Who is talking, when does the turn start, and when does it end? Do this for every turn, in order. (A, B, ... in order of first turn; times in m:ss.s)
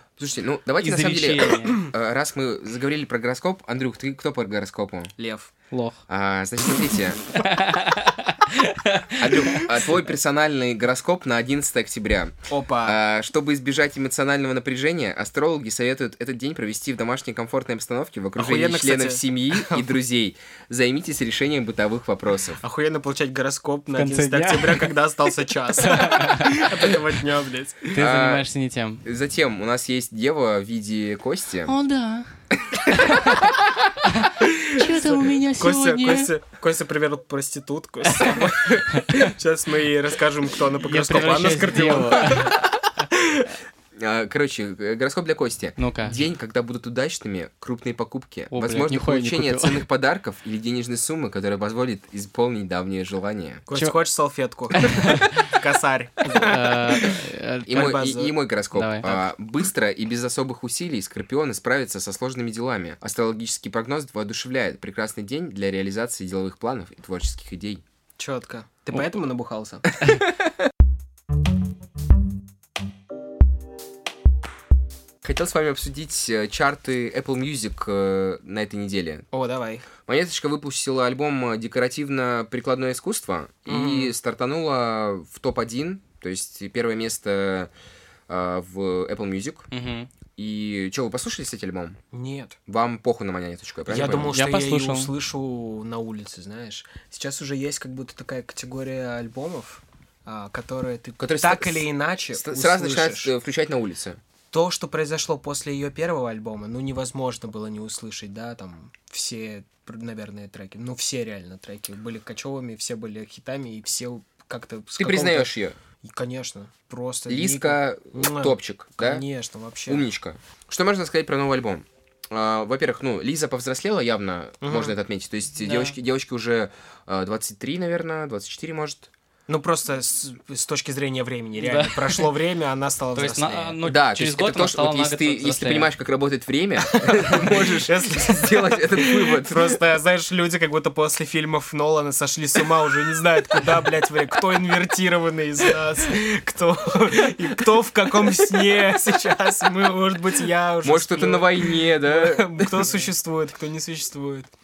0:00.2-0:05.1 A
0:00.8-0:01.8 B
0:05.2-0:05.5 C
0:05.7-0:06.0 B
0:06.1-0:07.2 A
0:07.4-0:09.7 B
0:09.2-0:22.6 A
0:12.5-0:13.0 C
0:18.4-0:19.9 C
0:22.6-0:28.0 C
0:24.0-0:24.9 B
0:25.8-0:26.7 B
0:27.9-0:29.0 B
0:28.0-0:28.5 A
0:29.0-0:31.7 A
0:31.7-0:32.3 B
0:32.8-0:36.3 B
0:34.4-0:43.5 C
0:38.2-0:39.3 B
0:40.8-0:42.6 B
0:44.0-0:53.6 A
0:45.8-0:46.2 B
0:48.5-0:49.8 B
0:53.7-0:58.4 C
0:54.8-0:55.5 B
0:56.3-0:57.9 B
0:57.7-1:07.8 A
0:58.7-0:59.1 B
1:08.2-1:09.9 C
1:15.2-1:19.3 A
1:19.3-1:19.9 C
1:20.1-1:27.7 A
1:23.7-1:24.2 C
1:28.3-1:29.7 A
1:29.7-1:30.1 B
1:30.4-1:32.0 A
1:32.1-1:32.6 C
1:32.7-1:34.3 A
1:33.9-1:43.3 C
1:34.3-1:35.1 B
1:41.2-1:44.2 A
1:44.5-1:55.5 C
1:55.0-1:55.8 A
1:56.0-2:00.0 C
1:57.3-1:59.2 A
1:59.9-2:09.1 A
2:04.6-2:05.0 C
2:05.6-2:05.9 B
2:09.5-2:13.8 C
2:11.6-2:12.3 B
2:13.2-2:15.9 B
2:13.8-2:19.8 A
2:16.9-2:34.5 C
2:30.8-2:33.0 A